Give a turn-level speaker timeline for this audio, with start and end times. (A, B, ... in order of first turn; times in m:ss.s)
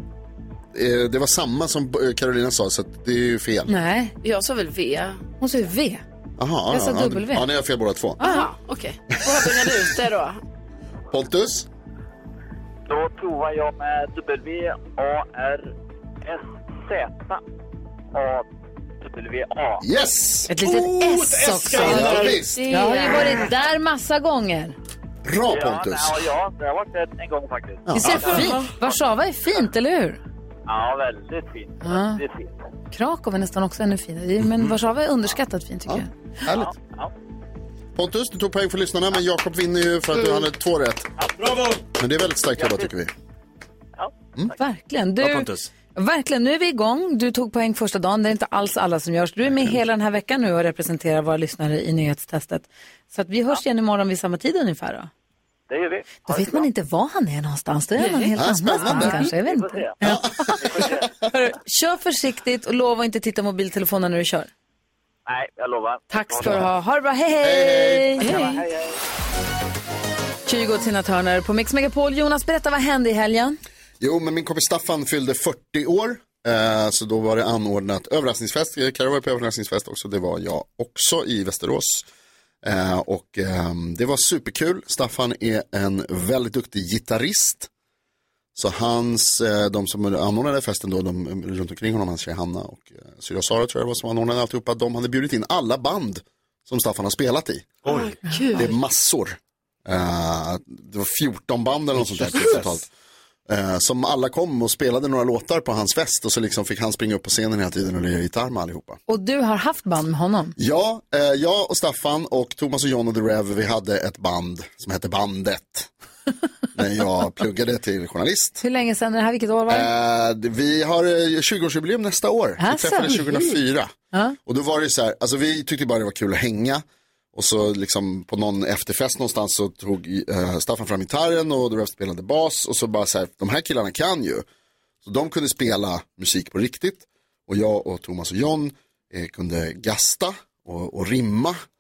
0:00.7-0:03.7 A
0:03.7-0:04.2 B
0:04.2-0:05.2 C
0:05.4-0:06.0 B
0:06.4-0:08.2 A
0:06.7-0:07.5 B
0:08.2-0:08.5 B
0:08.2-0:10.4 C
0:09.3-0:09.7 A
0:11.1-0:11.7 A
0:12.9-0:17.4 D
0:18.1-0:18.5 D
0:19.0-0:19.9 D
0:19.8-0:20.7 A
0:20.5-0:24.8 B
0:20.7-0:22.4 E
0:21.8-0:22.7 A
0:22.6-0:23.3 C
0:25.2-0:26.3 A
0:25.5-0:29.0 D
0:27.9-0:28.6 A
0:28.0-0:30.2 B
0:30.7-0:32.6 D
0:31.8-0:32.2 B
0:32.9-0:36.1 B
0:34.4-0:34.8 A
0:35.9-0:36.7 A
0:36.5-0:37.1 D
0:38.0-0:41.1 A
0:41.4-0:41.8 E
0:42.0-0:43.1 A
0:42.6-0:42.9 D
0:44.6-0:55.1 B
0:45.2-0:45.7 E
0:55.7-0:56.7 D
0:56.3-1:04.5 B
0:58.4-0:59.3 A
0:59.2-1:01.1 D
1:00.0-1:01.0 A
1:05.3-1:06.6 D
1:06.1-1:08.6 B
1:07.4-1:08.2 A
1:08.2-1:09.0 D
1:10.5-1:13.6 B
1:14.0-1:22.0 A
1:22.6-1:27.7 A
1:28.6-1:37.8 A
1:37.8-1:38.1 E
1:37.9-1:38.7 C
1:38.5-1:42.9 A
1:42.0-1:42.8 E
1:43.5-1:49.0 A
1:49.1-1:50.6 B
1:50.6-1:55.9 A
1:56.7-1:58.6 A
1:58.6-1:59.9 B
1:59.7-2:03.9 A
2:02.6-2:03.2 B
2:04.5-2:14.4 A
2:15.0-2:21.6 A